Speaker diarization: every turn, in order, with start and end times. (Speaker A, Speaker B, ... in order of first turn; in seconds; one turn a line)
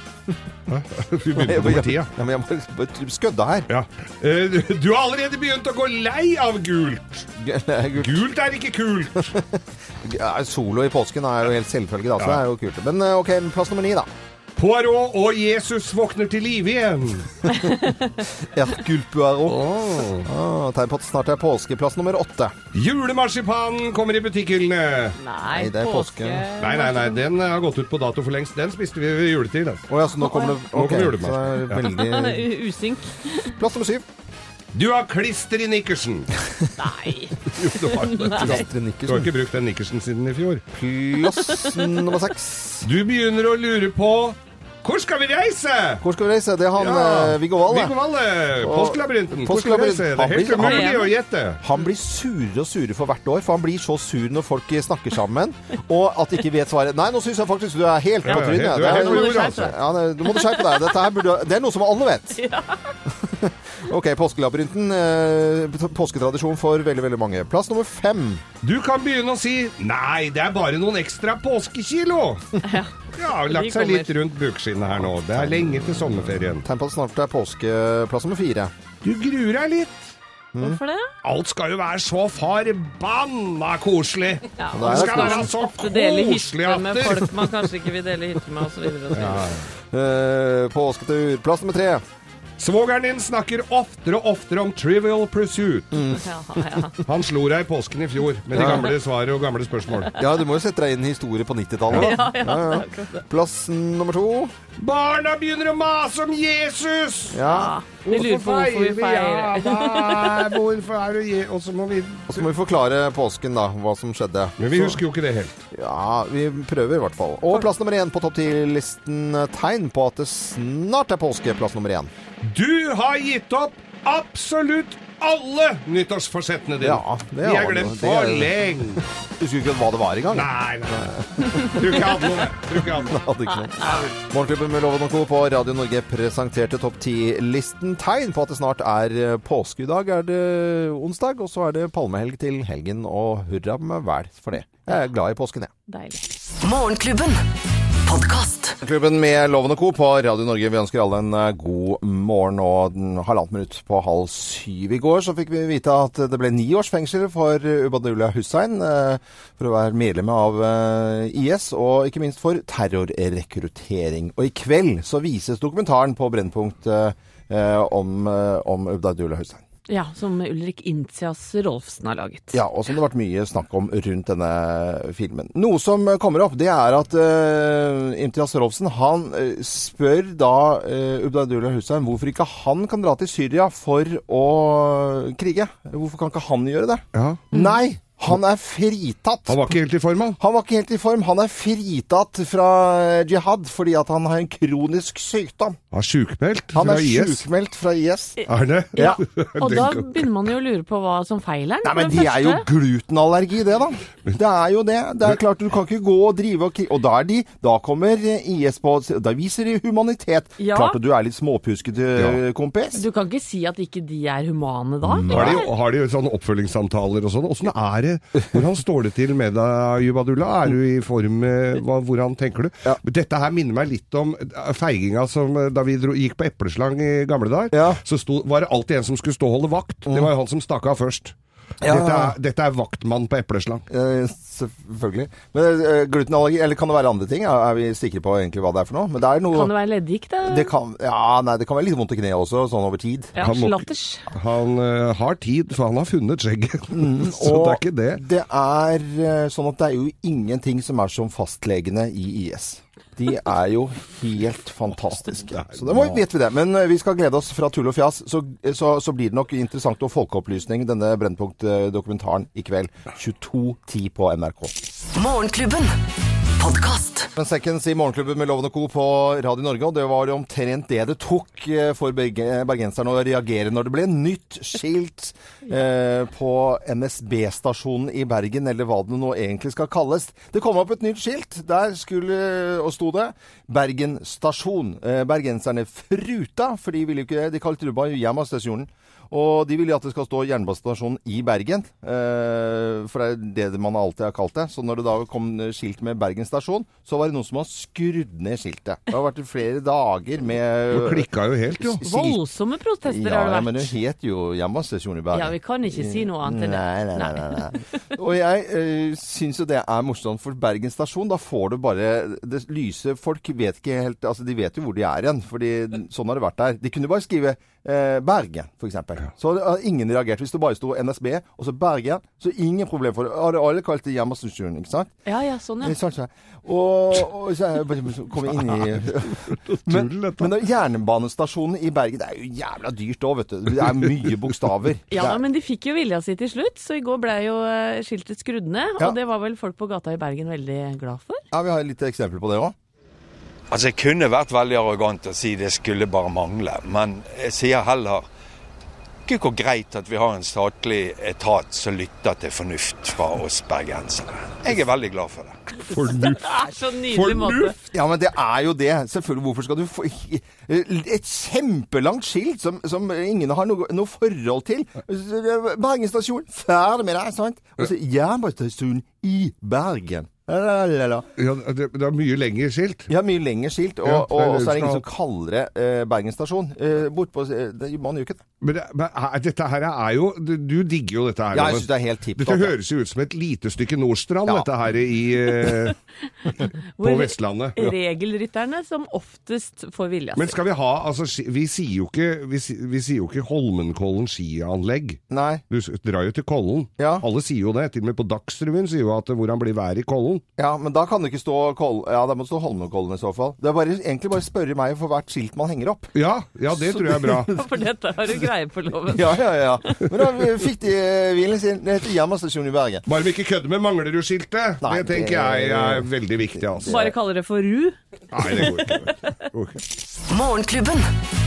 Speaker A: 0.7-2.1
Speaker B: 1.3-3.7
Speaker A: 3.7-7.3
Speaker B: 7.4-8.2
Speaker A: 8.0-9.3
Speaker B: 9.2-14.1
Speaker A: 14.6-17.4
Speaker C: 17.5-18.1
Speaker B: 18.4-22.6
Speaker A: 19.5-20.3
Speaker A: 22.7-25.2
Speaker C: 25.2-27.2
Speaker B: 25.5-26.5
Speaker A: 26.6-29.9
Speaker B: 29.9-32.5
Speaker C: 30.2-30.7
Speaker A: 30.7-31.9
Speaker C: 31.8-33.5
Speaker B: 33.4-34.1
Speaker A: 34.7-36.3
Speaker C: 36.8-38.6
Speaker A: 37.5-40.6
Speaker B: 38.4-39.3
Speaker B: 40.7-42.9
Speaker C: 41.3-42.0
Speaker A: 42.8-46.0
Speaker B: 46.0-48.0
Speaker A: 46.8-51.6
Speaker B: 48.6-51.0
Speaker C: 50.5-51.1
Speaker B: 51.6-62.4
Speaker A: 58.2-59.8
Speaker C: 58.3-61.0
Speaker C: 62.4-62.9
Speaker B: 63.1-68.4
Speaker A: 68.6-72.6
Speaker C: 72.6-72.9
Speaker A: 73.2-76.7
Speaker C: 73.4-74.2
Speaker B: 75.1-78.7
Speaker A: 79.0-80.1
Speaker B: 80.5-80.8
Speaker C: 80.6-81.1
Speaker A: 81.2-87.3
Speaker C: 84.6-89.5
Speaker B: 84.7-85.5
Speaker A: 89.1-89.7
Speaker B: 89.9-92.0
Speaker A: 92.6-96.0
Speaker B: 95.9-96.8
Speaker C: 96.1-97.0
Speaker A: 97.0-100.2
Speaker B: 98.5-98.9
Speaker B: 100.1-104.5
Speaker A: 101.9-102.1
Speaker C: 101.9-103.2
Speaker A: 104.8-107.4
Speaker B: 107.3-107.7
Speaker C: 107.4-110.5
Speaker A: 108.0-112.5
Speaker B: 112.3-115.0
Speaker A: 114.6-115.6
Speaker B: 115.7-122.1
Speaker A: 122.4-129.0
Speaker B: 126.8-128.5
Speaker B: 129.4-145.7
Speaker A: 130.3-133.2
Speaker C: 133.7-134.1
Speaker C: 145.9-146.2
Speaker D: 146.6-147.4
Speaker D: 148.1-148.8
Speaker B: 148.8-169.6
Speaker C: 169.9-172.6
Speaker B: 172.5-189.7
Speaker A: 187.1-187.6
Speaker A: 189.5-190.4
Speaker B: 190.4-195.8
Speaker A: 195.9-197.4
Speaker B: 196.7-198.4
Speaker A: 198.5-200.3
Speaker B: 199.0-199.2
Speaker C: 199.0-202.7
Speaker B: 201.8-213.0
Speaker C: 210.6-211.0
Speaker C: 212.9-215.7
Speaker B: 215.0-215.6
Speaker A: 215.3-233.8
Speaker B: 227.7-228.0
Speaker B: 230.1-230.3
Speaker B: 231.8-232.4
Speaker B: 233.9-239.7
Speaker C: 239.5-240.7
Speaker B: 240.4-243.3
Speaker C: 243.3-244.3
Speaker A: 243.4-248.2
Speaker B: 246.9-264.8
Speaker A: 255.5-256.2
Speaker D: 265.1-265.9
Speaker D: 266.6-267.3
Speaker B: 267.4-301.3
Speaker A: 300.9-302.4
Speaker C: 302.0-303.9
Speaker B: 303.1-325.1
Speaker C: 305.3-307.8
Speaker C: 325.3-325.9
Speaker B: 325.8-335.4
Speaker A: 328.5-330.5
Speaker C: 335.1-341.4
Speaker B: 341.5-342.8
Speaker E: 343.7-348.3
Speaker E: 349.3-355.9
Speaker A: 355.9-357.9
Speaker C: 356.1-357.8
Speaker B: 357.9-371.3
Speaker A: 371.4-373.1
Speaker B: 373.1-378.4
Speaker A: 374.0-375.0
Speaker A: 378.6-386.0
Speaker B: 381.5-382.8
Speaker C: 387.0-390.6
Speaker A: 387.0-387.8
Speaker A: 390.4-400.4
Speaker B: 395.3-395.6
Speaker B: 397.0-397.2
Speaker B: 400.6-406.1
Speaker A: 406.1-407.5
Speaker B: 406.7-407.5
Speaker C: 407.4-410.1
Speaker B: 409.1-413.1
Speaker A: 413.1-417.0
Speaker B: 414.8-417.1
Speaker C: 416.9-419.3
Speaker A: 418.3-419.8
Speaker D: 420.3-421.1